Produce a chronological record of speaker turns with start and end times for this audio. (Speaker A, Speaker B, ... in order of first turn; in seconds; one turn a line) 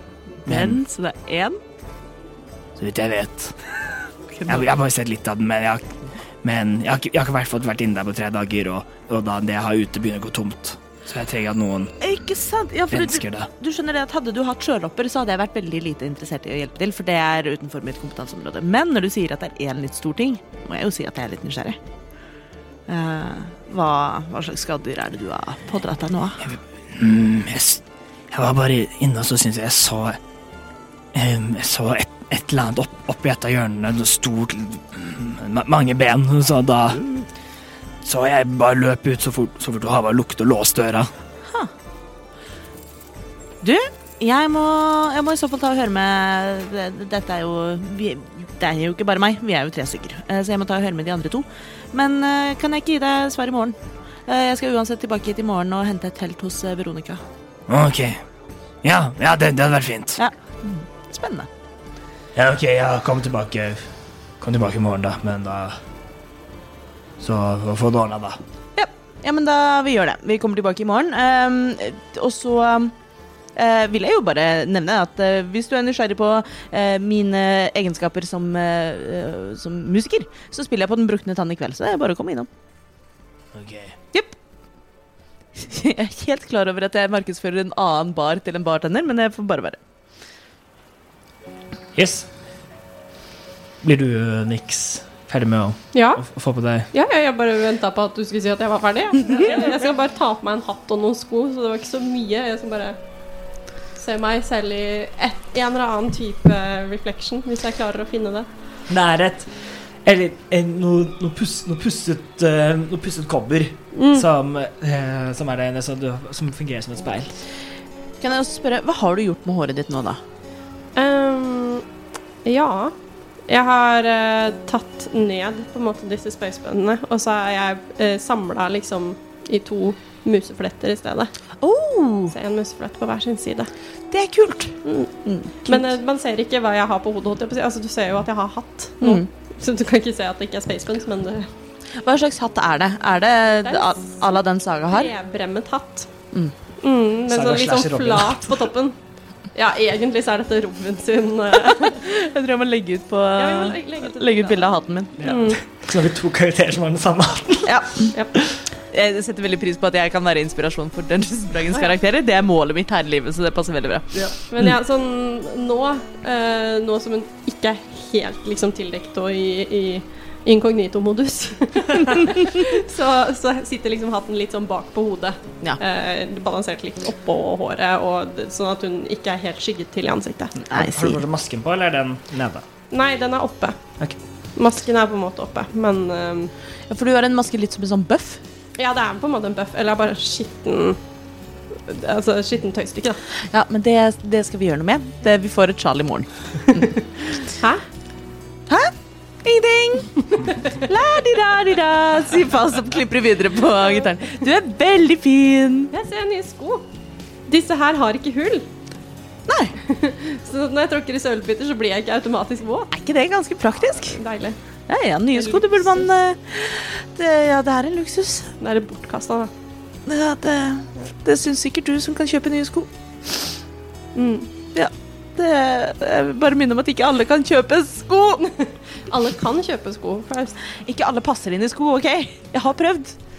Speaker A: 0.5-0.8
Speaker B: 0.5-1.6
Speaker A: 2.8-3.5
Speaker B: 4.3-4.7
Speaker A: 4.5-11.9
Speaker B: 12.0-21.8
Speaker A: 12.9-13.5
Speaker B: 22.9-26.4
Speaker A: 26.4-30.2
Speaker A: 31.1-37.2
Speaker A: 38.0-41.1
Speaker B: 43.6-57.2
Speaker A: 57.7-58.2
Speaker A: 58.8-60.2
Speaker B: 60.2-61.5
Speaker A: 62.4-63.9
Speaker A: 64.4-65.8
Speaker A: 67.2-68.4
Speaker B: 68.8-72.9
Speaker B: 73.5-82.5
Speaker A: 83.5-84.0
Speaker B: 85.5-89.8
Speaker A: 92.0-92.3
Speaker A: 93.8-96.9
Speaker C: 95.9-96.2
Speaker C: 96.9-103.0
Speaker A: 99.3-99.8
Speaker C: 104.0-108.5
Speaker A: 108.9-109.5
Speaker A: 110.0-117.4
Speaker C: 113.9-114.2
Speaker B: 118.2-120.2
Speaker C: 120.9-121.8
Speaker C: 122.4-122.9
Speaker C: 123.5-131.3
Speaker B: 131.6-132.3
Speaker C: 132.3-133.7
Speaker B: 134.1-135.9
Speaker C: 134.8-135.1
Speaker C: 135.6-141.5
Speaker B: 139.0-139.3
Speaker B: 142.0-145.1
Speaker C: 143.6-144.3
Speaker C: 144.9-146.1
Speaker C: 146.8-148.9
Speaker A: 147.3-148.7
Speaker C: 149.5-152.0
Speaker B: 151.6-155.1
Speaker C: 153.3-155.6
Speaker A: 155.2-157.8
Speaker B: 157.7-158.1
Speaker B: 158.9-164.1
Speaker C: 164.5-180.5
Speaker B: 180.6-181.2
Speaker A: 180.7-182.6
Speaker C: 182.9-183.8
Speaker C: 184.6-186.5
Speaker B: 186.9-188.4
Speaker C: 188.8-191.0
Speaker C: 191.8-193.2
Speaker B: 193.5-197.0
Speaker C: 197.5-197.8
Speaker B: 198.7-198.9
Speaker B: 199.4-205.9
Speaker C: 205.9-206.8
Speaker C: 207.5-208.7
Speaker B: 209.5-209.7
Speaker C: 209.9-212.9
Speaker B: 212.9-214.2
Speaker C: 214.1-214.6
Speaker B: 214.9-218.5
Speaker C: 215.3-216.1
Speaker C: 218.6-219.5
Speaker B: 220.1-222.9
Speaker C: 224.1-224.5
Speaker B: 224.7-228.5
Speaker C: 228.4-230.6
Speaker B: 230.8-233.2